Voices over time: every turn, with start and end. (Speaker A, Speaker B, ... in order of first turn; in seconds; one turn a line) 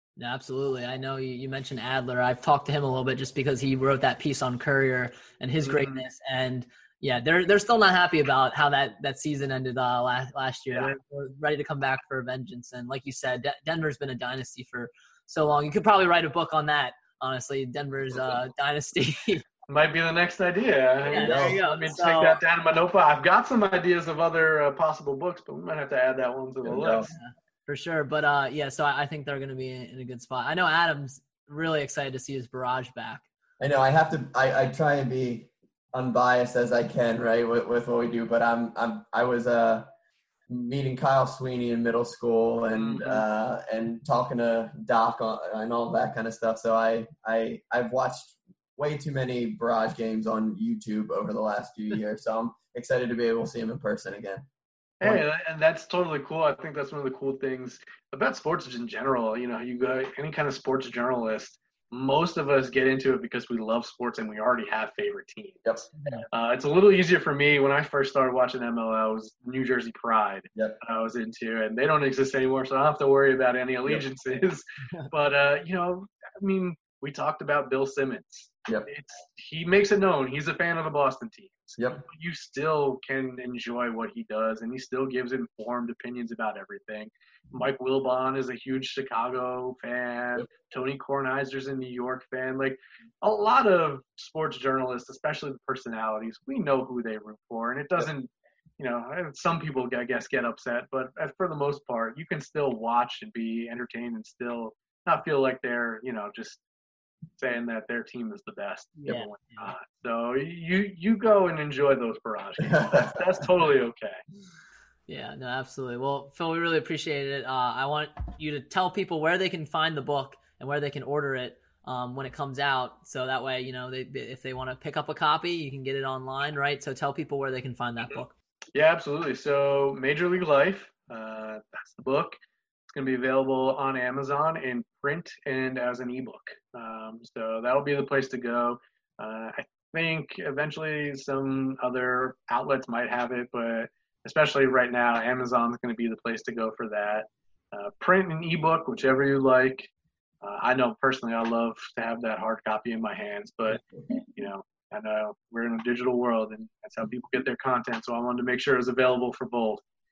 Speaker A: 0.2-19.4
Speaker B: 5.6-6.0
Speaker B: 19.7-27.1
Speaker A: 21.1-22.4
Speaker C: 21.2-21.6
Speaker C: 26.6-27.1
Speaker A: 27.1-33.2
Speaker C: 33.6-39.9
Speaker C: 40.5-54.5
Speaker B: 42.7-43.2
Speaker B: 55.0-65.6
Speaker A: 66.0-66.3
Speaker B: 66.3-106.6
Speaker B: 107.4-114.2
Speaker A: 109.0-109.7
Speaker C: 112.7-113.1
Speaker A: 115.1-128.3
Speaker B: 128.7-132.4
Speaker B: 132.9-149.9
Speaker B: 150.4-153.8
Speaker B: 154.3-159.8